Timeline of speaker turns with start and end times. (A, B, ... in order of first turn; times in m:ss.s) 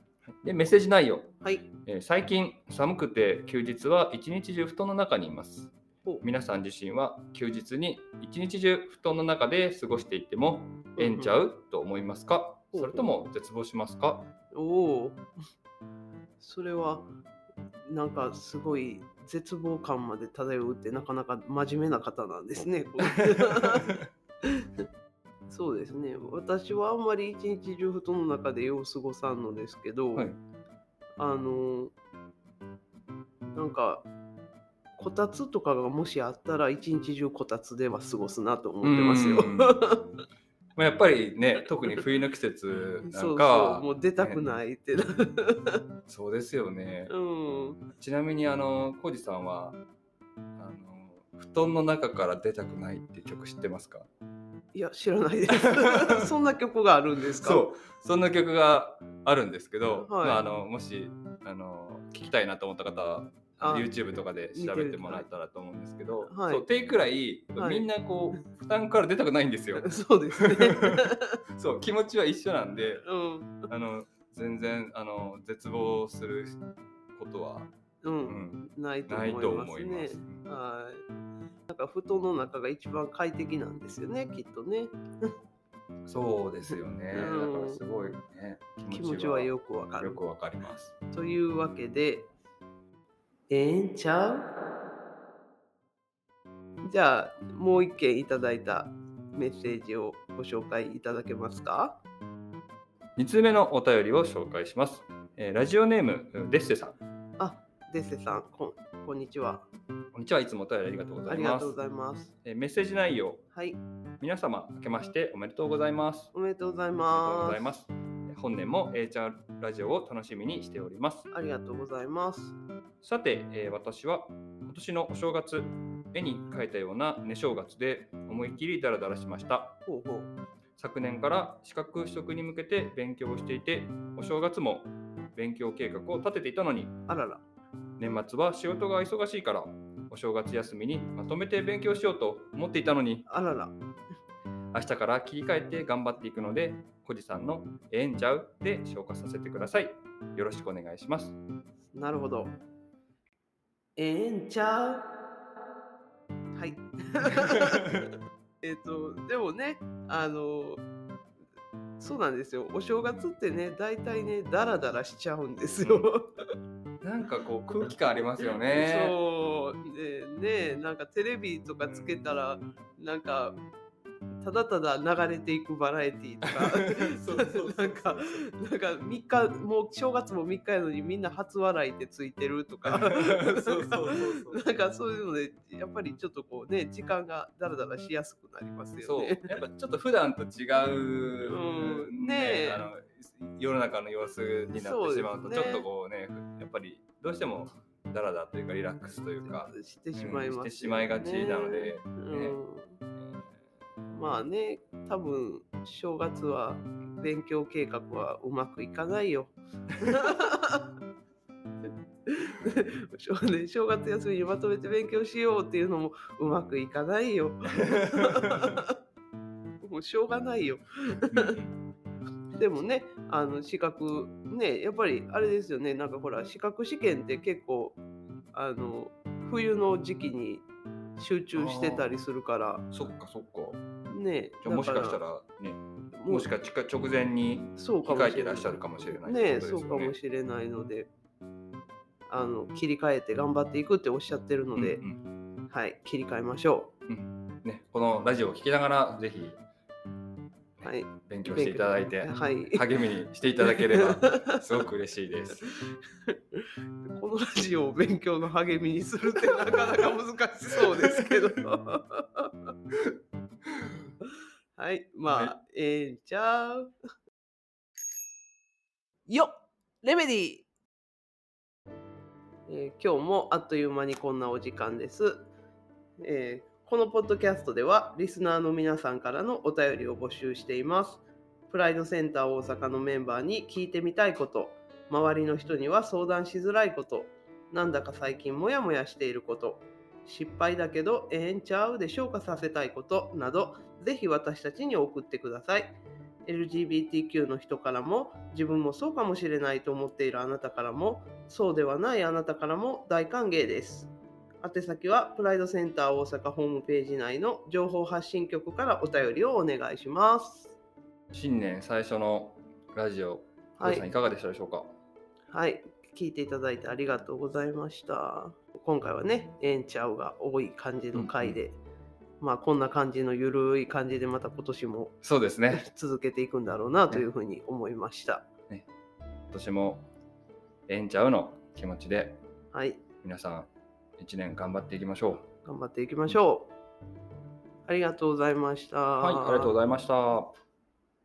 0:00.4-0:14.3 A
0:01.4-0:01.7 B
0:11.0-0:11.4 B
0:12.7-0:13.1 B
0:14.5-0:15.2 B
0:16.4-0:17.1 B
0:17.9-0:23.9 B
0:25.5-0:30.3 B
0:30.2-0:30.4 A
0:31.2-0:31.9 B
0:33.6-0:34.1 B
0:35.0-0:40.1 B
0:38.8-0:39.8 A
0:40.8-0:44.4 A
0:43.1-0:45.8 B
0:46.1-0:47.1 A
0:47.1-0:47.8 B
0:48.0-0:49.8 A
0:50.6-0:54.1 A
0:54.7-0:57.7 B
0:57.4-1:11.0 A
1:00.0-1:00.4 B
1:03.6-1:03.9 B
1:04.5-1:05.3 B
1:06.3-1:06.6 B
1:07.6-1:07.9 B
1:09.8-1:11.4 B
1:11.6-1:13.0 A
1:13.0-1:13.7 B
1:13.7-1:16.6 A
1:17.2-1:17.7 A
1:18.0-1:21.0 B
1:18.3-1:20.4 A
1:21.7-1:25.3 B
1:26.1-1:31.0 A
1:27.1-1:27.8 B
1:28.9-1:30.2 B
1:31.1-1:32.3 B
1:33.5-1:34.5 B
1:36.8-1:42.0 B
1:43.2-1:47.0 A
1:47.4-1:49.7 B
1:50.1-1:51.8 A
1:51.3-1:52.3 B
1:52.4-1:53.4 A
1:53.5-1:53.8 B
1:54.2-1:56.3 A
1:56.3-1:57.7 B
1:57.1-2:01.3 A
2:01.3-2:02.6 B
2:03.0-2:09.8 A
2:09.9-2:10.3 B
2:10.8-2:17.0 A
2:17.1-2:17.4 B
2:18.0-2:23.3 A
2:23.3-2:23.8 B
2:24.7-2:31.4 A
2:31.9-2:32.6 B
2:34.0-2:35.0 B
2:36.5-2:37.9 B
2:38.6-2:40.8 B
2:42.0-2:46.3 B
2:43.0-2:43.3 A
2:45.8-2:46.1 A
2:47.0-2:49.2 A
2:48.7-2:53.6 B
2:54.4-3:09.6 B
2:56.5-2:58.5 A
3:02.9-3:04.6 A
3:09.0-3:22.6 A
3:11.5-3:12.8 B
3:14.7-3:15.8 B
3:19.4-3:23.0 B
3:24.1-3:30.8 B
3:32.3-3:38.9 B
3:38.2-3:38.7 A
3:39.8-3:41.5 B
3:41.3-3:41.7 A
3:42.6-3:48.0 B
3:48.5-3:50.6 B
3:51.2-3:52.8 B
3:51.6-3:52.2 A
3:52.9-3:53.8 A
3:54.1-3:55.2 B
3:54.6-4:00.2 A
3:56.1-3:56.5 B
3:57.8-4:01.1 B
4:02.3-4:05.0 B
4:04.8-4:05.2 A
4:05.7-4:06.9 B
4:07.1-4:09.6 A
4:10.8-4:15.7 A
4:10.8-4:12.8 B
4:13.6-4:14.1 B
4:16.5-4:22.5 B
4:24.8-4:26.9 B
4:25.3-4:25.5 A
4:29.3-4:30.7 B
4:32.7-4:35.5 B
4:36.2-5:04.1 B
5:04.6-5:10.8 B
5:11.3-5:14.9 A
5:13.8-5:14.0 B
5:15.5-5:21.8 B
5:21.1-5:21.6 A
5:22.4-5:28.5 B
5:25.2-5:25.9 A
5:29.5-5:30.1 A
5:30.9-5:32.4 A
5:32.7-5:33.0 B
5:33.2-5:35.4 A
5:35.6-5:36.7 B
5:37.8-5:39.7 B
5:39.2-5:40.5 A